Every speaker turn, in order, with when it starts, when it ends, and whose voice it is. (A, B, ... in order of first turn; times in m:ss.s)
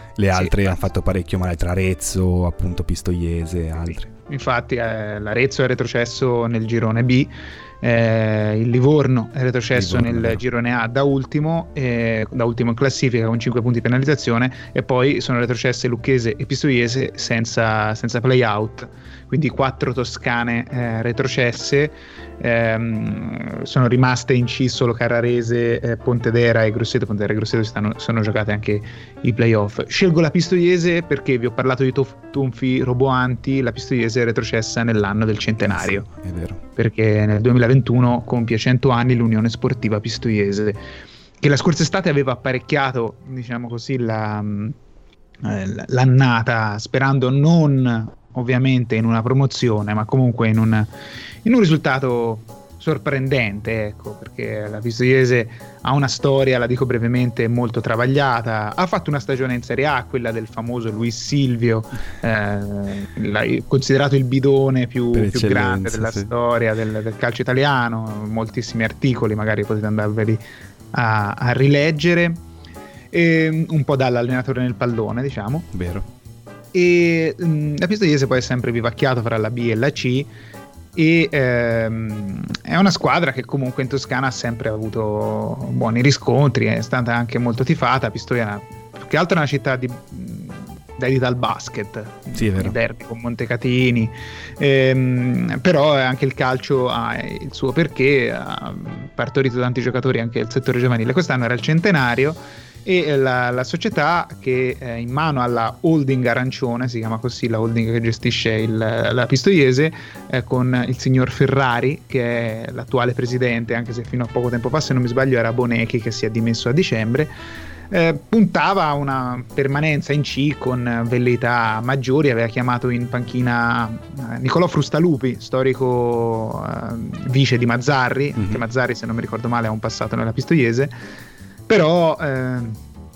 0:00.2-0:04.1 A
0:00.3-0:00.8 B
0:04.1-0:36.1 B
0:09.7-0:10.4 A
0:35.6-0:36.6 A
0:36.8-0:40.8 B
0:41.4-0:44.7 B
0:45.4-0:50.9 B
0:51.4-1:10.4 B
1:05.1-1:06.3 A
1:10.9-1:12.4 B
1:13.1-1:15.7 B
1:15.7-1:16.1 A
1:16.7-1:20.3 B
1:21.0-1:57.3 B
1:32.3-1:32.8 A
1:57.9-2:10.9 B
2:08.4-2:08.6 A
2:11.7-2:12.8 B